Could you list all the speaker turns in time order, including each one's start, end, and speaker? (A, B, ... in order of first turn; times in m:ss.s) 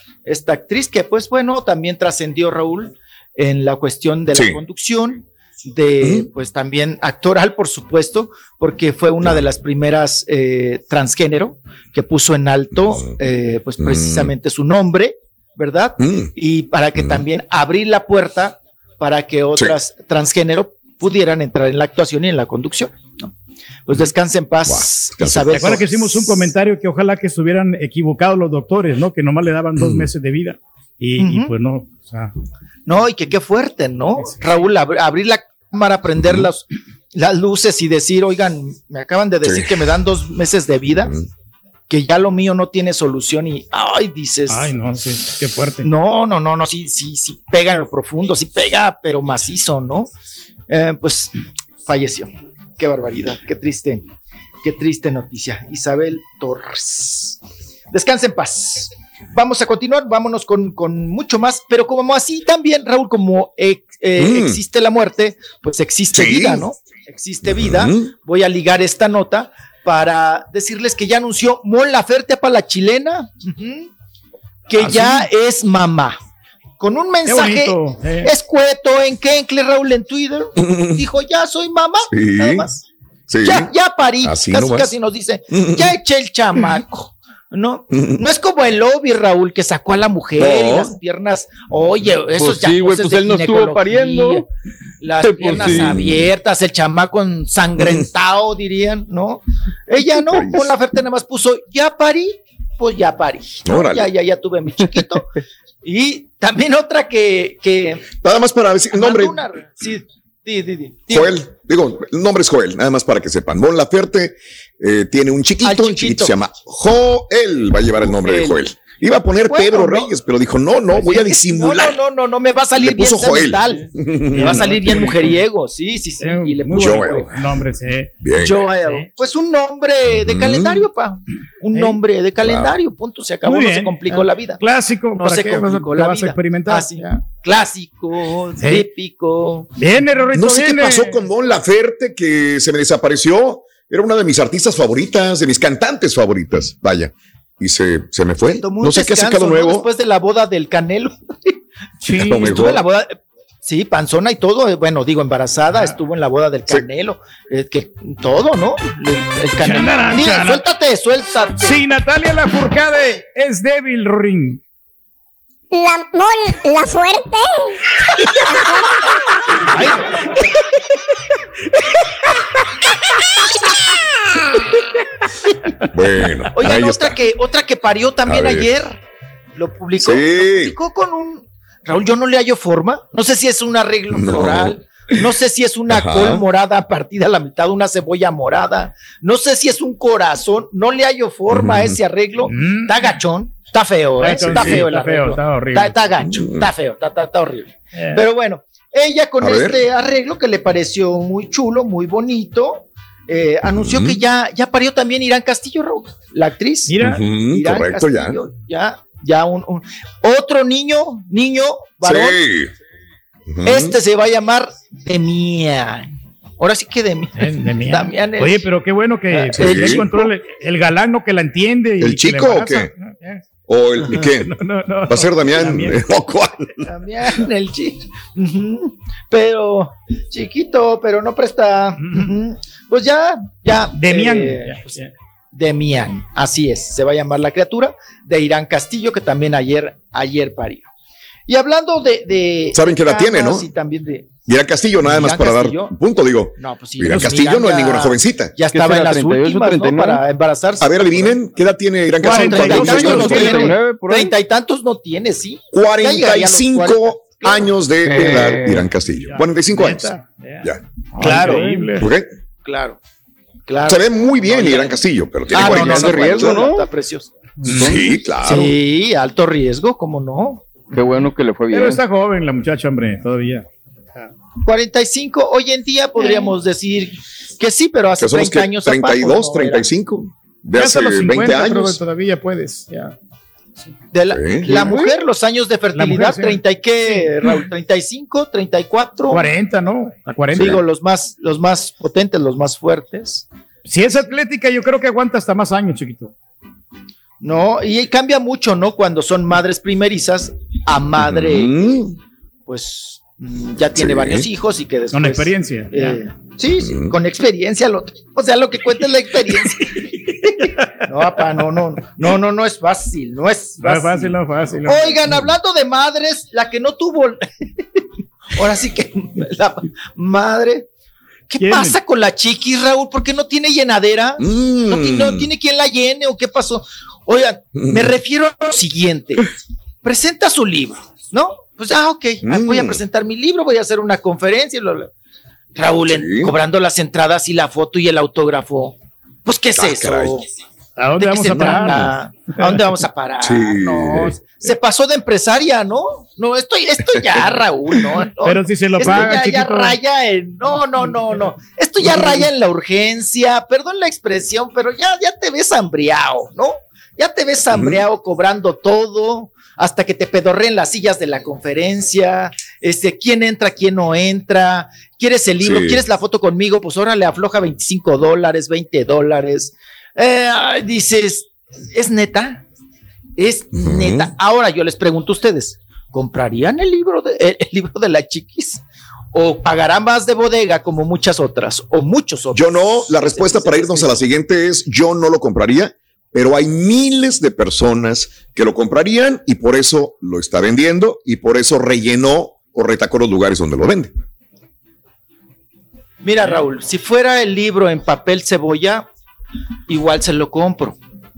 0:00.2-0:23.3 A
0:04.3-0:04.6 B
0:23.8-0:26.5 A
0:24.7-0:25.6 B
0:25.5-0:32.3 C
0:29.8-0:30.0 B
0:31.2-0:31.5 A
0:32.8-0:41.2 A
0:39.4-0:39.7 B
0:41.9-0:44.7 A
0:44.5-0:45.9 C
0:45.8-0:50.1 A
0:50.7-0:54.1 A
0:54.6-0:57.4 A
0:57.9-1:13.9 A
1:04.2-1:04.6 B
1:06.1-1:06.6 B
1:07.5-1:08.1 B
1:14.7-1:16.2 A
1:14.8-1:15.2 C
1:16.8-1:22.8 A
1:17.2-1:18.3 C
1:22.1-1:22.6 B
1:23.3-1:23.7 B
1:23.4-1:34.4 A
1:24.2-1:24.9 B
1:25.5-1:25.8 B
1:30.4-1:30.9 B
1:32.3-1:34.4 D
1:35.0-1:45.3 A
1:35.2-1:36.0 D
1:35.8-1:36.2 B
1:43.7-1:44.1 B
1:45.8-1:48.1 A
1:48.2-1:49.4 B
1:48.9-1:51.4 A
1:51.1-2:02.0 B
1:55.6-1:56.3 A
1:58.1-1:58.6 A
1:59.4-2:00.1 A
2:00.9-2:07.3 A
2:02.8-2:04.8 B
2:04.3-2:05.2 C
2:06.2-2:08.1 C
2:06.7-2:07.3 B
2:08.2-2:08.6 B
2:08.4-2:14.6 A
2:08.8-2:09.1 C
2:10.2-2:10.8 B
2:11.7-2:12.0 C
2:12.4-2:12.7 B
2:13.4-2:17.2 C
2:15.2-2:19.7 A
2:19.8-2:21.2 C
2:20.3-2:29.9 B
2:28.5-2:31.6 A
2:32.0-2:32.5 C
2:32.2-2:32.8 B
2:32.2-2:41.8 A
2:39.6-2:40.6 C
2:41.6-2:44.6 C
2:45.7-2:47.8 E
2:49.6-2:50.0 A
2:55.8-2:57.1 B
2:56.5-2:59.0 A
2:58.2-2:58.6 B
2:59.6-3:32.4 A
3:00.0-3:00.7 B
3:04.2-3:04.7 B
3:05.9-3:06.4 B
3:11.5-3:11.9 B
3:12.5-3:13.0 C
3:14.2-3:15.9 C
3:14.4-3:14.8 B
3:16.3-3:16.6 B
3:17.9-3:18.2 C
3:19.4-3:19.8 B
3:23.7-3:24.2 B
3:26.9-3:27.2 C
3:27.0-3:28.4 B
3:32.0-3:32.7 B
3:33.5-3:33.9 B
3:33.6-3:38.6 A
3:37.4-3:43.4 C
3:39.3-3:40.3 A
3:39.6-3:40.1 B
3:42.0-3:42.9 B
3:43.7-3:44.5 B
3:44.1-3:46.1 C
3:45.1-3:46.8 B
3:46.8-3:55.0 A
3:53.9-3:55.1 C
3:55.5-4:00.9 A
4:01.5-4:04.3 A
4:02.7-4:03.7 B
4:04.5-4:08.6 B
4:05.0-4:05.9 A
4:06.6-4:11.4 A
4:07.0-4:07.5 C
4:08.6-4:10.2 D
4:10.8-4:13.6 B
4:12.2-4:13.7 C
4:12.2-4:17.8 A
4:12.7-4:14.3 D
4:15.7-4:20.8 B
4:18.0-4:18.9 D
4:19.2-4:22.1 C
4:21.2-4:21.6 A
4:21.4-4:21.8 D
4:22.0-4:22.3 B
4:22.6-4:23.0 A
4:23.7-4:27.3 A
4:23.8-4:26.7 B
4:25.5-4:26.9 D
4:27.6-4:28.1 D
4:27.7-4:28.7 B
4:28.4-4:30.7 A
4:30.9-4:32.0 D
4:31.7-4:34.3 C
4:34.6-4:39.8 A
4:38.2-4:42.0 B
4:40.7-4:43.1 C
4:44.1-4:49.5 A
4:44.3-4:44.8 B
4:44.7-4:45.2 D
4:45.9-4:47.2 C
4:49.3-4:50.8 C
4:50.5-4:53.5 A
4:53.8-4:56.3 C
4:57.4-5:01.8 A
5:01.2-5:02.1 B
5:02.6-5:17.7 A
5:04.0-5:04.4 B
5:05.1-5:06.2 C
5:06.8-5:07.1 B
5:13.8-5:15.3 C
5:18.5-5:20.9 A
5:21.5-5:29.5 A
5:21.6-5:22.0 C
5:24.4-5:25.5 B
5:30.0-5:35.1 A
5:32.4-5:33.0 B
5:35.7-5:40.4 A
5:36.1-5:36.5 B
5:39.8-5:40.3 B
5:41.0-5:42.8 C
5:41.2-6:12.6 A
5:43.4-5:44.3 B
5:48.4-5:50.0 C
5:57.7-5:58.0 B
6:05.6-6:06.0 B
6:13.4-6:24.2 A
6:13.7-6:14.3 B
6:22.5-6:34.1 B
6:36.2-6:39.0 A
6:39.9-6:41.0 A